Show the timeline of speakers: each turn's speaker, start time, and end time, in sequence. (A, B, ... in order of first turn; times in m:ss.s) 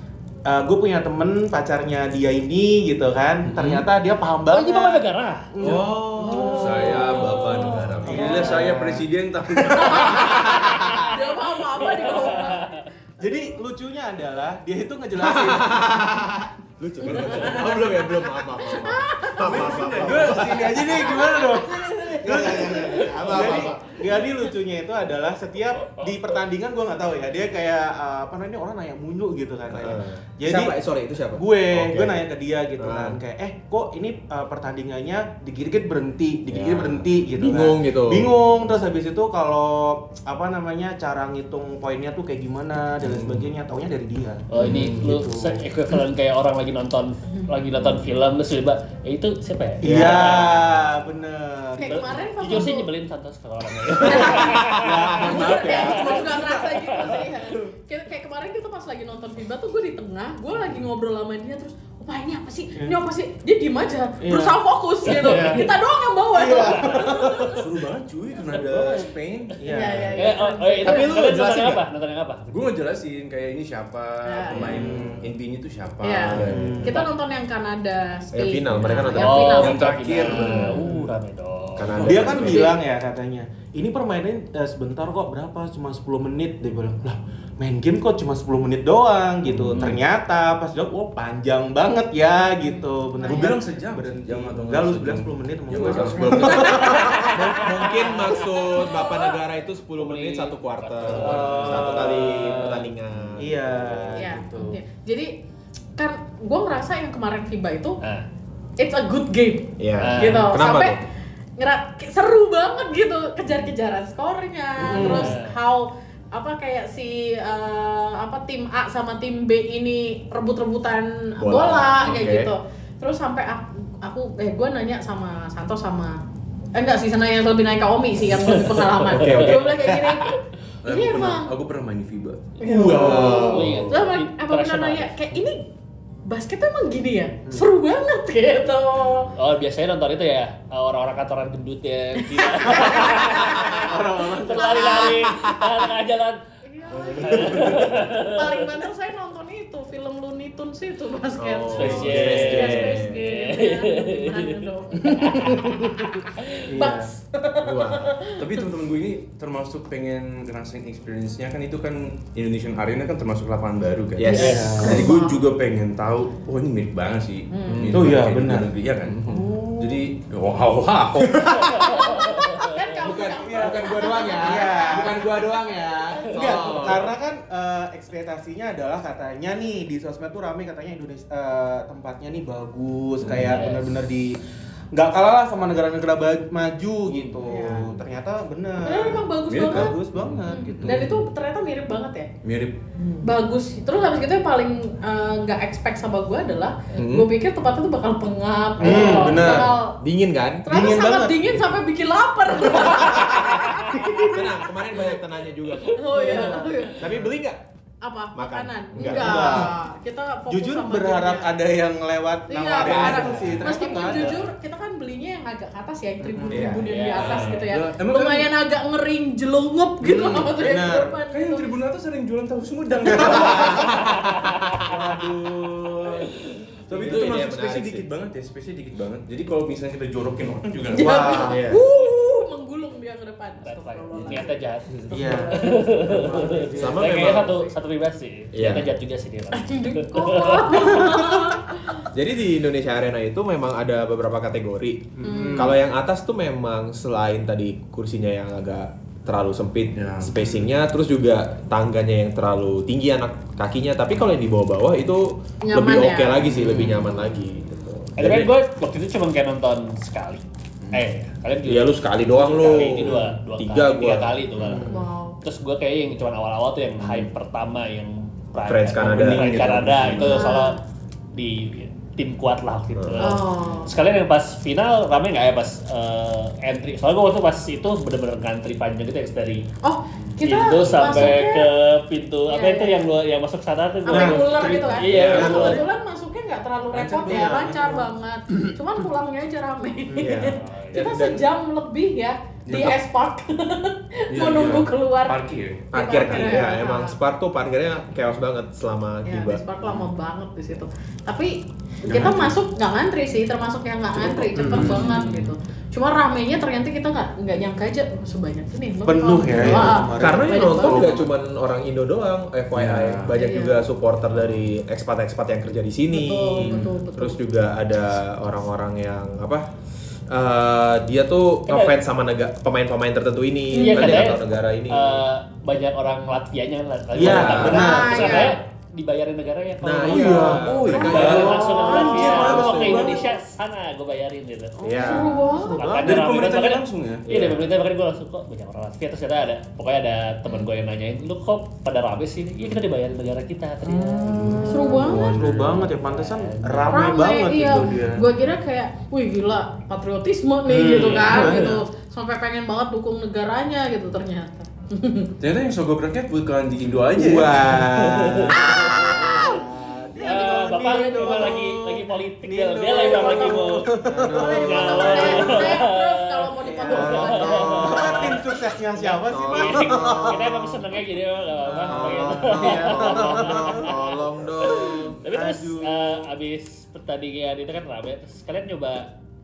0:00.4-0:09.0 A
0:03.5-0:03.8 B
0:04.5-0:05.5 C
0:05.6-0:06.6 D
0:06.3-0:10.5 B
0:06.5-0:06.8 E
0:08.0-0:08.7 D
0:08.1-0:08.4 E
0:09.6-0:10.4 A
0:09.7-0:12.8 E
0:10.4-0:11.2 C
0:11.8-0:12.8 C
0:13.2-0:16.0 A
0:15.2-0:20.9 D
0:17.1-0:17.7 E
0:18.3-0:19.9 E
0:19.4-0:21.3 B
0:19.5-0:30.8 A
0:20.9-0:23.3 E
0:22.2-0:23.9 D
0:29.7-0:32.2 D
0:31.3-0:45.6 A
0:32.8-0:33.2 D
0:36.5-0:38.3 D
0:44.5-0:50.5 C
0:49.8-0:52.2 A
0:49.9-0:50.4 D
0:51.8-0:52.9 E
0:51.8-0:55.2 C
0:54.0-1:07.6 E
0:54.0-0:56.7 A
0:54.5-0:54.9 D
0:55.2-0:56.5 B
0:55.8-0:56.2 C
0:56.8-0:57.2 C
1:04.2-1:04.6 A
1:05.0-1:05.7 C
1:06.3-1:07.6 A
1:07.5-1:09.9 B
1:08.5-1:09.1 C
1:09.6-1:10.3 A
1:09.7-1:11.1 E
1:10.1-1:12.5 C
1:10.8-1:11.8 D
1:12.5-1:16.8 B
1:14.2-1:14.9 E
1:14.5-1:15.3 A
1:16.0-1:20.7 E
1:16.3-1:16.9 D
1:16.4-1:17.0 A
1:18.3-1:19.7 D
1:19.1-1:22.1 C
1:19.5-1:20.8 B
1:20.7-1:21.1 A
1:21.8-1:22.7 D
1:21.9-1:22.8 B
1:22.0-1:37.6 A
1:29.6-1:29.9 B
1:32.6-1:33.5 E
1:33.2-1:37.1 B
1:36.3-1:44.1 D
1:36.7-1:38.4 C
1:38.8-1:39.3 E
1:40.0-1:42.9 C
1:41.1-1:42.2 A
1:41.2-1:41.9 B
1:43.4-1:44.8 A
1:44.1-1:45.3 E
1:46.0-1:48.0 E
1:48.8-1:51.0 E
1:49.8-1:51.0 D
1:50.0-1:50.5 C
1:51.6-2:06.2 E
1:54.8-1:55.4 A
1:54.9-1:55.6 C
2:01.4-2:02.5 D
2:06.7-2:11.5 E
2:08.5-2:09.6 C
2:09.1-2:10.3 D
2:10.8-2:12.5 B
2:12.6-2:15.7 E
2:12.6-2:13.9 D
2:13.1-2:15.1 C
2:16.2-2:19.3 E
2:19.3-2:26.4 C
2:22.2-2:25.4 E
2:22.6-2:25.1 A
2:26.6-2:38.5 E
2:27.0-2:27.7 D
2:27.2-2:28.6 C
2:31.4-2:33.2 D
2:31.7-2:35.6 C
2:35.1-2:35.9 A
2:36.4-2:36.6 C
2:36.7-2:37.1 A
2:37.6-2:38.2 D
2:38.3-2:51.7 B
2:44.2-2:44.7 D
2:44.3-2:45.4 E
2:44.3-2:44.9 C
2:44.3-2:45.1 A
2:47.5-2:47.9 E
2:47.7-2:48.2 D
2:47.9-2:48.7 A
2:49.1-2:49.4 D
2:49.3-2:50.1 A
2:51.2-2:51.8 D
2:51.6-2:52.8 C
2:51.8-2:57.0 E
2:53.0-2:57.1 D
2:53.6-2:55.4 A
2:56.3-3:04.4 A
3:03.3-3:03.9 C
3:04.9-3:11.2 A
3:07.4-3:07.9 E
3:08.8-3:10.0 E
3:09.5-3:11.2 B
3:10.5-3:12.3 E
3:12.4-3:12.8 B
3:13.0-3:13.2 A
3:13.2-3:20.0 E
3:17.0-3:17.3 D
3:18.8-3:19.8 A
3:18.8-3:20.7 D
3:20.6-3:24.4 E
3:20.7-3:21.7 A
3:23.1-3:24.4 A
3:24.3-3:27.6 D
3:25.9-3:27.1 E
3:26.1-3:27.3 A
3:28.0-3:31.5 E
3:28.3-3:29.7 D
3:29.0-3:29.7 A
3:30.5-3:34.5 A
3:32.5-3:41.7 E
3:32.8-3:33.6 D
3:33.1-3:33.5 B
3:36.2-3:36.7 A
3:36.5-3:36.9 D
3:36.8-3:37.7 C
3:37.4-3:38.5 B
3:40.1-3:41.1 A
3:40.1-3:40.5 B
3:41.3-3:43.9 B
3:43.1-3:44.6 D
3:43.2-3:43.7 A
3:44.8-3:46.3 A
3:46.9-3:51.5 B
3:46.9-3:48.1 D
3:50.9-3:54.5 E
3:51.0-3:51.8 D
3:53.6-4:01.1 C
3:55.1-3:57.5 A
3:55.1-3:56.0 E
3:56.7-3:57.5 D
3:58.5-3:58.9 D
3:59.5-4:02.1 E
4:02.1-4:18.5 D
4:05.2-4:05.8 A
4:05.2-4:05.7 E
4:10.0-4:10.3 B
4:15.6-4:17.4 E
4:16.5-4:17.0 A
4:16.5-4:17.0 B
4:18.2-4:30.8 C
4:21.6-4:24.3 D
4:24.6-4:25.0 A
4:24.9-4:25.4 E
4:28.6-4:30.3 D
4:29.0-4:30.4 B
4:30.2-4:30.8 E
4:31.3-4:39.7 C
4:32.9-4:33.4 D
4:33.2-4:33.9 E
4:39.8-4:41.7 E
4:40.4-4:45.8 C
4:42.5-4:43.0 E
4:44.0-4:55.4 E
4:44.1-4:45.8 A
4:44.6-4:45.0 B
4:45.0-4:45.8 D
4:46.9-4:47.8 B
4:47.2-4:48.1 A
4:50.1-4:50.4 A
4:50.2-4:51.4 D
4:50.4-4:51.1 C
4:52.6-4:53.0 B
4:54.3-4:55.9 B
4:55.9-4:57.1 E
4:55.9-4:59.6 D
4:59.2-5:11.1 E
5:02.1-5:02.5 B
5:04.5-5:05.1 A
5:04.6-5:05.3 B
5:09.0-5:11.2 A
5:09.5-5:09.9 B
5:09.6-5:19.7 D
5:12.7-5:13.4 B
5:13.3-5:13.8 E
5:16.1-5:17.4 E
5:16.7-5:16.9 A
5:20.3-5:25.2 D
5:21.7-5:22.0 C
5:23.7-5:24.2 E
5:23.7-5:34.8 C
5:27.1-5:28.4 A
5:27.2-5:28.0 D
5:27.5-5:28.6 E
5:29.8-5:31.6 D
5:30.1-5:33.2 E
5:30.2-5:32.9 A
5:30.2-5:33.2 B
5:34.8-5:36.2 A
5:34.8-5:35.4 D
5:35.0-5:35.8 E
5:35.8-5:47.2 C
5:36.0-5:37.3 B
5:37.3-5:37.6 D
5:43.8-5:48.2 A
5:44.4-5:45.9 B
5:44.7-5:45.3 E
5:46.9-5:55.3 E
5:50.6-5:51.8 A
5:50.9-5:51.8 C
5:55.4-5:57.8 B
5:57.1-6:05.7 A
5:57.9-5:59.6 C
5:58.6-5:59.6 E
6:00.2-6:08.4 C
6:00.2-6:01.5 E
6:03.0-6:03.6 E
6:04.1-6:04.4 D
6:04.3-6:07.9 E
6:06.6-6:10.6 A
6:06.9-6:08.4 D
6:09.1-6:10.6 D
6:09.4-6:19.1 C
6:11.6-6:13.9 A
6:11.8-6:15.2 D
6:14.7-6:16.3 A